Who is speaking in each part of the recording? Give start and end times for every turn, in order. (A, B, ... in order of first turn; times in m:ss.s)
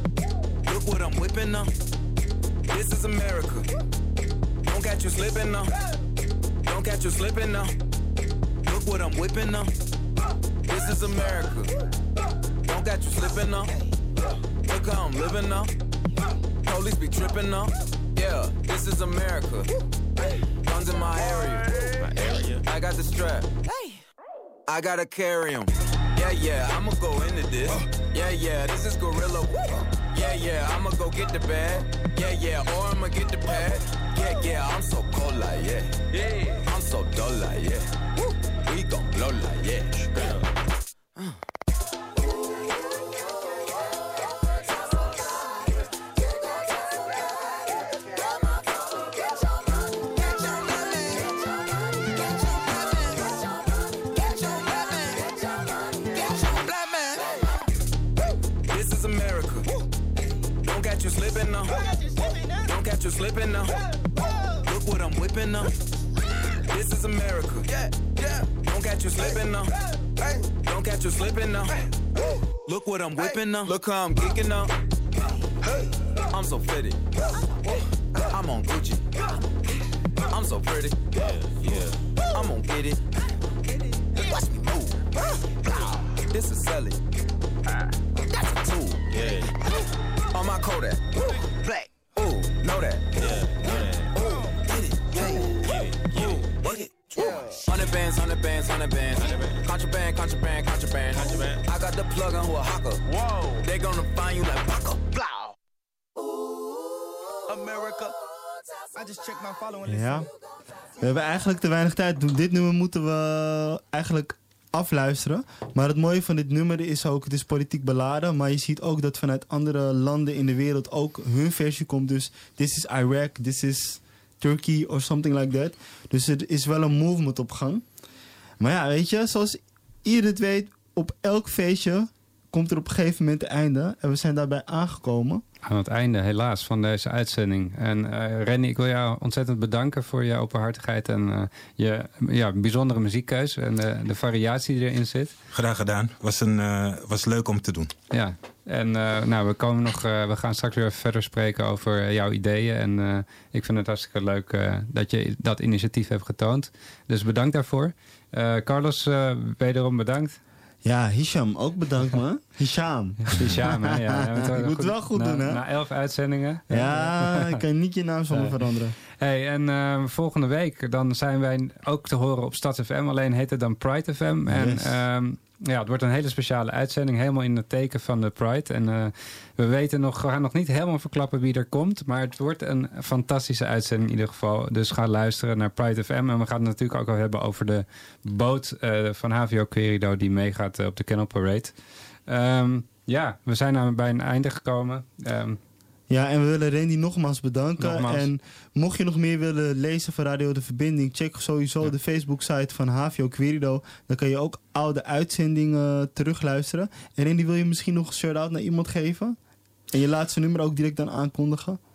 0:00.6-0:01.7 A
0:02.7-0:03.7 A
0:04.6-0:05.7 A
0:06.6-0:07.7 A
0:08.6-0:09.7 A
0:10.7-0:11.7 A
0:12.6-0:13.7 A
0:14.6-0:15.7 A
0:16.6-0:19.7 A
0:20.6-0:23.5 A
0:24.7-0:37.9 A
0:38.6-0:40.4 A
0:58.7-0:59.7 A
1:00.6-1:01.8 A
1:02.6-1:03.8 A
1:04.6-1:05.7 A
1:06.7-1:09.7 A
1:10.2-1:11.7 A
1:12.6-1:14.7 A
1:15.6-1:17.0 A
1:17.6-1:19.0 A
1:20.3-1:23.0 A
1:24.2-1:25.0 A
1:26.2-1:27.0 A
1:28.3-1:29.5 A
1:30.3-1:45.5 A
1:37.2-1:37.6 B
1:43.1-1:43.6 B
1:47.5-1:48.1 B
1:49.0-1:49.8 B
1:49.8-1:50.3 C
1:51.0-2:07.8 C
2:08.6-2:15.4 C
2:15.6-2:25.3 D
2:25.5-2:27.9 E
2:28.1-2:40.4 D
2:40.8-2:45.6 C
2:43.3-2:47.6 D
2:46.7-2:48.9 C
2:49.2-3:11.7 D
2:54.5-2:54.9 C
3:12.3-3:15.6 D
3:16.1-3:29.4 C
3:17.8-3:18.3 D
3:29.9-3:31.8 C